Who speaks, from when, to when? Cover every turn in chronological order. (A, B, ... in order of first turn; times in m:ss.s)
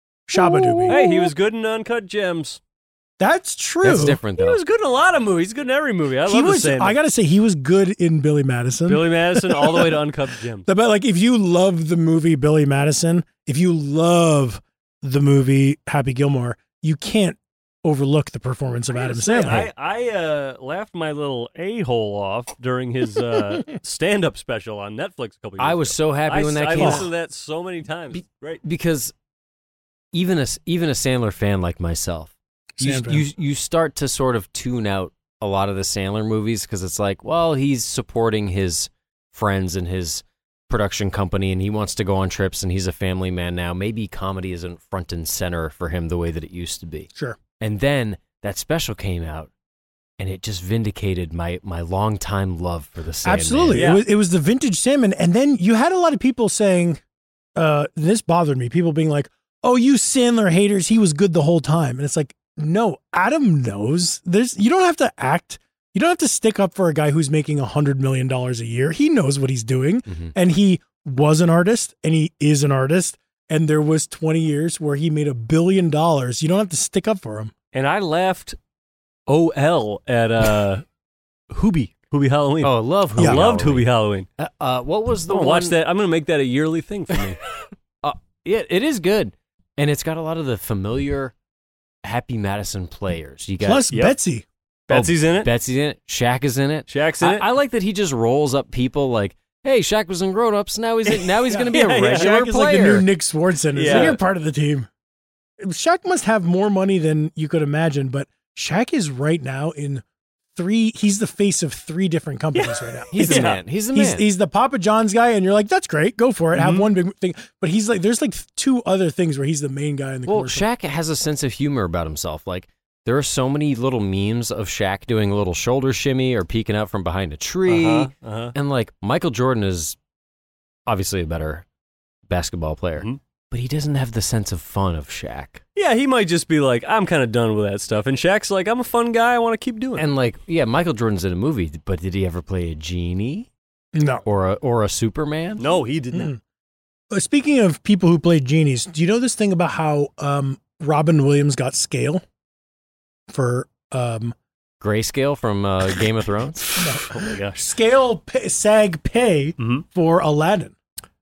0:00.3-0:01.1 A
0:00.4-0:01.1 B
0:00.9-0:02.6 C
0:03.2-0:04.2 A
0:03.8-0:04.6 B
0:04.4-0:07.0 C
0:06.2-0:10.0 A
0:08.9-0:10.7 C
0:10.7-0:19.6 A
0:18.9-0:28.6 C
0:25.6-0:27.1 B
0:26.8-0:27.0 A
0:28.1-0:29.1 B
0:30.1-0:49.5 B
0:32.8-0:33.2 A
0:50.2-0:53.9 B
0:53.2-0:57.0 A
0:53.7-0:54.0 C
0:57.6-1:17.5 A
1:17.7-1:18.6 C
1:19.3-1:20.8 C
1:21.5-1:24.3 C
1:22.6-1:25.8 B
1:23.2-1:23.5 A
1:25.3-1:27.4 C
1:28.0-1:31.3 B
1:32.0-1:33.9 B
1:33.6-1:34.4 A
1:33.9-1:34.2 C
1:34.9-1:35.5 C
1:34.9-1:43.1 B
1:36.9-1:37.5 C
1:41.1-1:42.3 C
1:41.5-1:44.9 A
1:43.7-1:44.2 C
1:43.8-1:44.2 B
1:45.6-1:50.0 A
1:50.5-2:00.7 A
1:52.6-1:53.6 C
1:53.1-1:54.3 B
1:56.5-1:56.9 C
2:00.3-2:10.0 B
2:07.7-2:08.6 C
2:10.9-2:11.7 B
2:12.3-2:15.6 B
2:15.8-2:20.0 C
2:20.0-2:23.5 B
2:23.9-2:24.2 A
2:24.2-2:25.6 B
2:25.6-2:26.3 C
2:26.1-2:26.4 A
2:27.1-2:32.2 A
2:33.3-2:34.4 A
2:34.8-2:36.6 B
2:36.8-2:37.6 C
2:36.8-2:40.8 A
2:39.6-2:39.8 C